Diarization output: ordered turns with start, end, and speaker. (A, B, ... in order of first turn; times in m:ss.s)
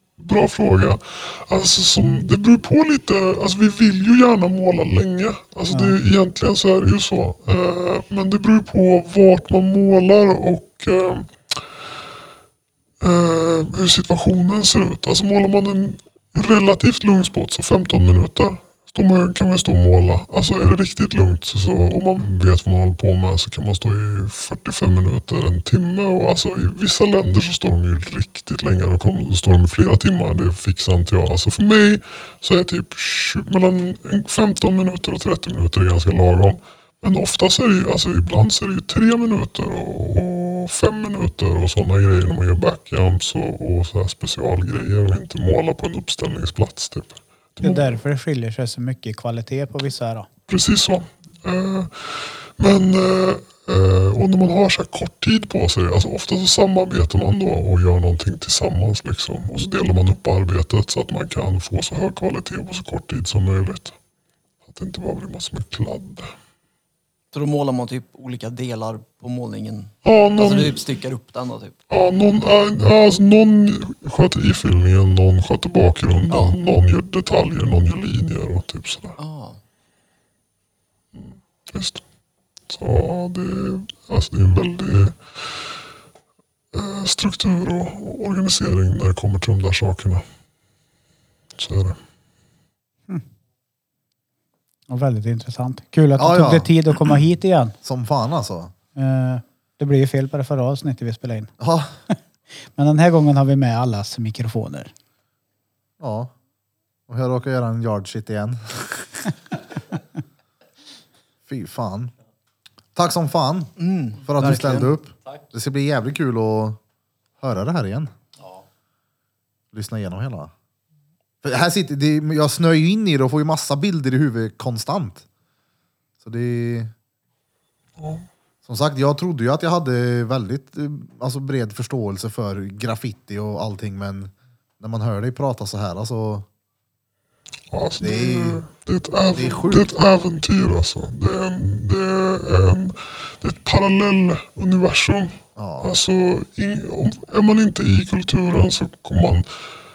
0:00.2-0:11.6 A
0:05.7-0:06.0 B
0:13.0-0:47.9 A
0:47.6-0:50.3 B
0:50.5-1:03.9 A
1:04.6-1:06.3 A
1:07.3-1:11.8 C
1:10.0-1:10.8 A
1:11.9-1:19.2 A
1:16.3-1:16.6 C
1:19.2-1:19.6 C
1:21.1-1:22.0 A
1:22.7-1:25.4 A
1:26.7-1:30.2 A
1:31.6-1:32.0 A
1:34.9-1:37.8 B
1:36.2-1:36.7 D
1:37.8-1:38.7 D
1:38.9-1:41.5 B
1:41.6-1:41.9 D
1:42.7-1:44.9 B
1:46.0-1:46.3 D
1:47.1-1:49.2 D
1:51.5-1:52.1 D
1:52.9-1:56.8 D
1:53.8-1:55.0 C
1:57.4-1:58.1 D
1:59.7-2:00.5 D
2:01.4-2:05.2 D
2:06.2-2:06.9 D
2:08.0-2:08.3 A
2:08.6-2:16.5 D
2:17.7-2:29.4 A
2:18.0-2:18.6 D
2:19.3-2:19.9 D
2:25.6-2:25.9 D